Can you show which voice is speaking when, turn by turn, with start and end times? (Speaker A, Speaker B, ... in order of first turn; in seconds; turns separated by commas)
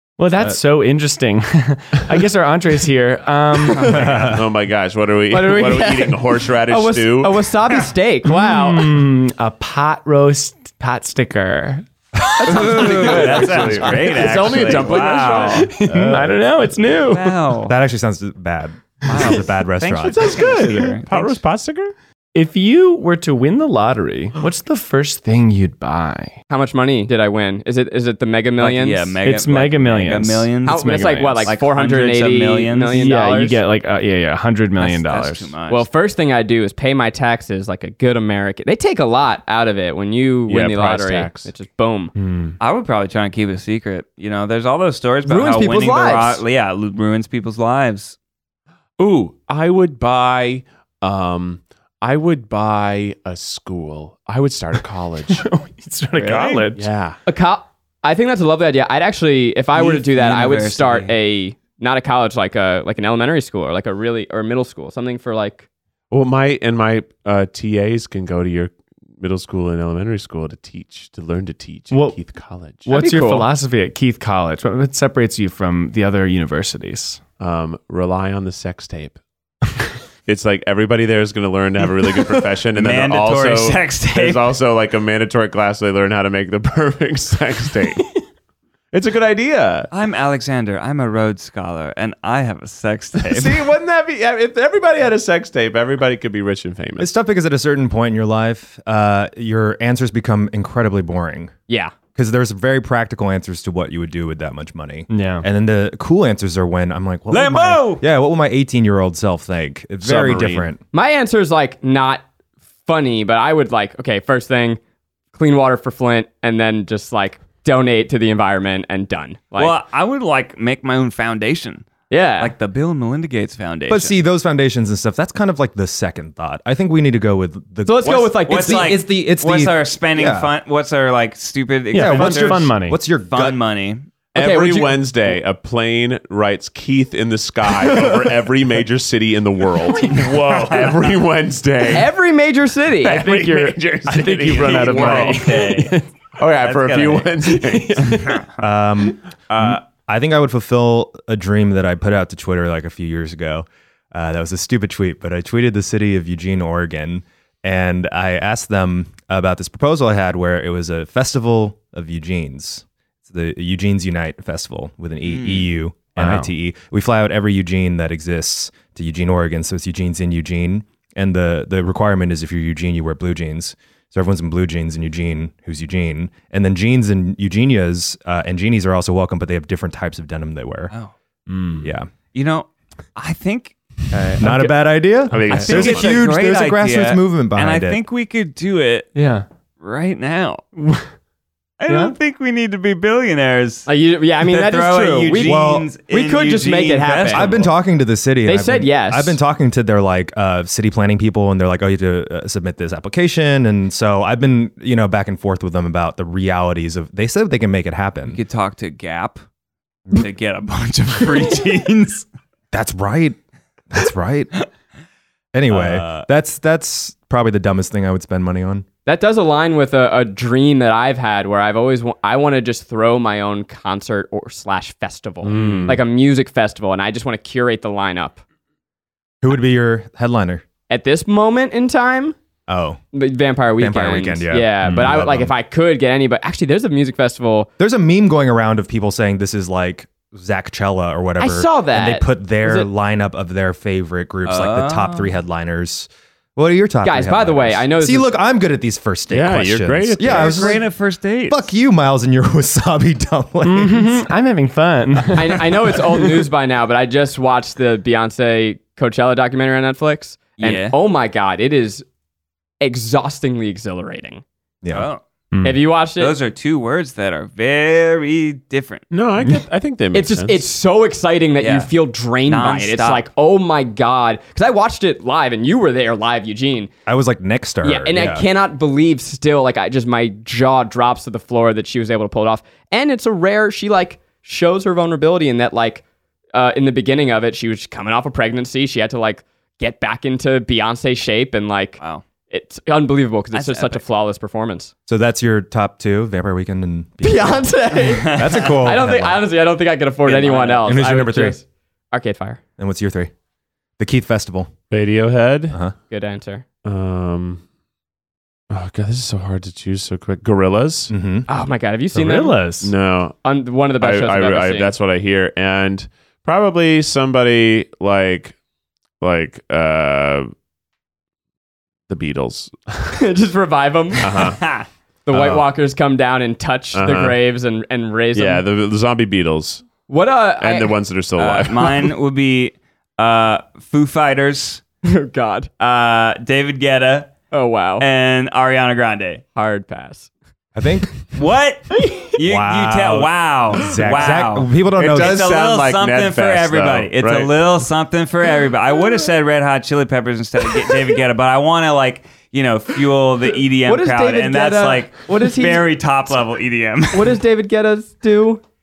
Speaker A: 0.2-4.0, Speaker B: 3.9-4.4, Speaker C: 4.1-7.5, Speaker D: 5.3-8.9, Speaker A: 8.3-13.8, Speaker E: 12.4-15.7, Speaker C: 12.4-16.3, Speaker D: 14.1-15.7, Speaker A: 15.6-17.4, Speaker B: 15.9-16.2, Speaker E: 17.0-17.8, Speaker B: 17.7-20.3, Speaker E: 19.1-21.4, Speaker C: 20.0-21.9, Speaker A: 22.3-26.4, Speaker D: 26.5-29.2, Speaker E: 28.6-33.1, Speaker A: 29.2-31.5, Speaker D: 30.7-33.6, Speaker A: 33.0-35.5, Speaker E: 34.8-35.9, Speaker D: 35.7-42.1, Speaker C: 40.5-41.5, Speaker A: 42.2-42.5, Speaker E: 42.6-48.2, Speaker D: 45.3-46.4, Speaker C: 49.0-55.4, Speaker A: 55.4-56.9, Speaker E: 56.2-56.7, Speaker C: 56.7-57.2, Speaker D: 57.3-65.7, Speaker E: 59.8-61.2, Speaker C: 66.1-72.9, Speaker A: 71.9-72.2, Speaker A: 72.8-77.2, Speaker D: 72.9-73.5, Speaker C: 77.4-79.2, Speaker C: 80.3-88.0, Speaker E: 82.8-84.5, Speaker C: 88.9-89.9, Speaker E: 89.9-93.7, Speaker C: 93.2-97.1, Speaker B: 97.0-101.5, Speaker D: 101.7-102.0, Speaker B: 102.2-110.8, Speaker A: 105.1-105.5, Speaker E: 107.3-108.0, Speaker C: 110.0-110.7, Speaker D: 110.9-112.2, Speaker D: 112.9-114.8, Speaker D: 115.3-119.8, Speaker E: 119.6-121.9, Speaker D: 122.1-122.5, Speaker E: 122.4-124.2, Speaker B: 123.9-130.5, Speaker D: 127.8-128.9, Speaker E: 128.5-134.1, Speaker A: 131.9-133.0, Speaker B: 131.9-133.6, Speaker C: 134.3-142.1, Speaker D: 134.4-135.0, Speaker A: 139.9-140.9, Speaker D: 141.9-143.4, Speaker C: 143.0-148.1, Speaker A: 143.2-146.1, Speaker E: 144.5-145.9, Speaker E: 146.6-147.3, Speaker A: 147.5-148.4, Speaker E: 148.1-148.5, Speaker B: 148.6-180.9, Speaker C: 149.5-149.8, Speaker E: 165.2-165.7, Speaker A: 166.2-166.5, Speaker A: 181.5-181.9, Speaker B: 181.8-182.1, Speaker E: 182.3-183.8, Speaker A: 184.1-184.8, Speaker B: 184.4-188.0, Speaker C: 185.3-186.3, Speaker E: 185.5-189.1, Speaker A: 189.2-189.5, Speaker E: 189.8-190.6, Speaker A: 190.8-191.1, Speaker E: 191.8-193.9, Speaker A: 191.9-192.2, Speaker D: 193.9-197.6, Speaker E: 194.4-197.7, Speaker B: 195.4-195.9, Speaker B: 197.3-208.4, Speaker D: 198.4-199.4, Speaker E: 208.3-209.4, Speaker E: 210.1-212.2, Speaker B: 212.7-213.4, Speaker B: 213.9-214.6, Speaker B: 215.5-218.9, Speaker E: 215.7-216.3, Speaker D: 219.1-228.4, Speaker C: 225.4-226.0, Speaker B: 225.6-225.9, Speaker B: 229.4-230.6, Speaker D: 230.9-232.4, Speaker B: 232.7-233.0, Speaker D: 233.1-237.7, Speaker B: 233.8-235.5, Speaker B: 237.8-250.9, Speaker D: 241.4-242.9, Speaker E: 244.5-245.3, Speaker D: 247.0-248.3, Speaker C: 249.3-250.8, Speaker E: 250.2-251.7, Speaker B: 251.5-254.2, Speaker A: 253.6-256.3, Speaker D: 255.3-262.1, Speaker E: 260.6-260.9, Speaker D: 262.8-264.4, Speaker B: 264.8-265.1, Speaker E: 264.9-265.2, Speaker A: 265.5-265.8, Speaker D: 265.6-266.3, Speaker E: 266.2-269.1, Speaker C: 269.1-270.6, Speaker D: 270.1-276.9, Speaker E: 271.6-271.9, Speaker E: 272.5-273.3, Speaker B: 277.1-278.4, Speaker D: 277.8-286.0, Speaker D: 286.5-294.9, Speaker E: 293.5-294.0, Speaker B: 295.1-299.5, Speaker D: 297.2-302.6, Speaker E: 298.2-298.7, Speaker E: 300.3-301.0, Speaker B: 300.9-301.6, Speaker B: 302.8-303.3, Speaker B: 304.0-304.7, Speaker C: 304.9-305.8, Speaker D: 306.1-306.6, Speaker C: 306.9-307.6, Speaker C: 308.7-311.1, Speaker B: 311.1-311.5, Speaker D: 311.5-312.6, Speaker A: 312.1-312.9, Speaker C: 312.8-313.4, Speaker D: 313.4-314.9, Speaker C: 314.0-318.6, Speaker C: 319.2-320.5, Speaker C: 322.1-323.2, Speaker D: 323.1-324.4, Speaker C: 324.2-324.6, Speaker E: 324.6-324.9, Speaker D: 325.3-328.6, Speaker C: 325.3-325.6, Speaker C: 326.9-327.4, Speaker C: 328.4-329.9, Speaker D: 330.1-330.9, Speaker C: 330.6-332.1, Speaker E: 331.4-334.8, Speaker D: 335.0-335.7, Speaker E: 335.8-337.3, Speaker D: 337.5-338.1, Speaker E: 338.0-339.4, Speaker D: 339.6-340.3, Speaker B: 340.8-341.4, Speaker E: 341.4-357.4, Speaker B: 342.4-345.4, Speaker C: 345.0-347.6, Speaker D: 353.9-355.9, Speaker D: 357.1-358.6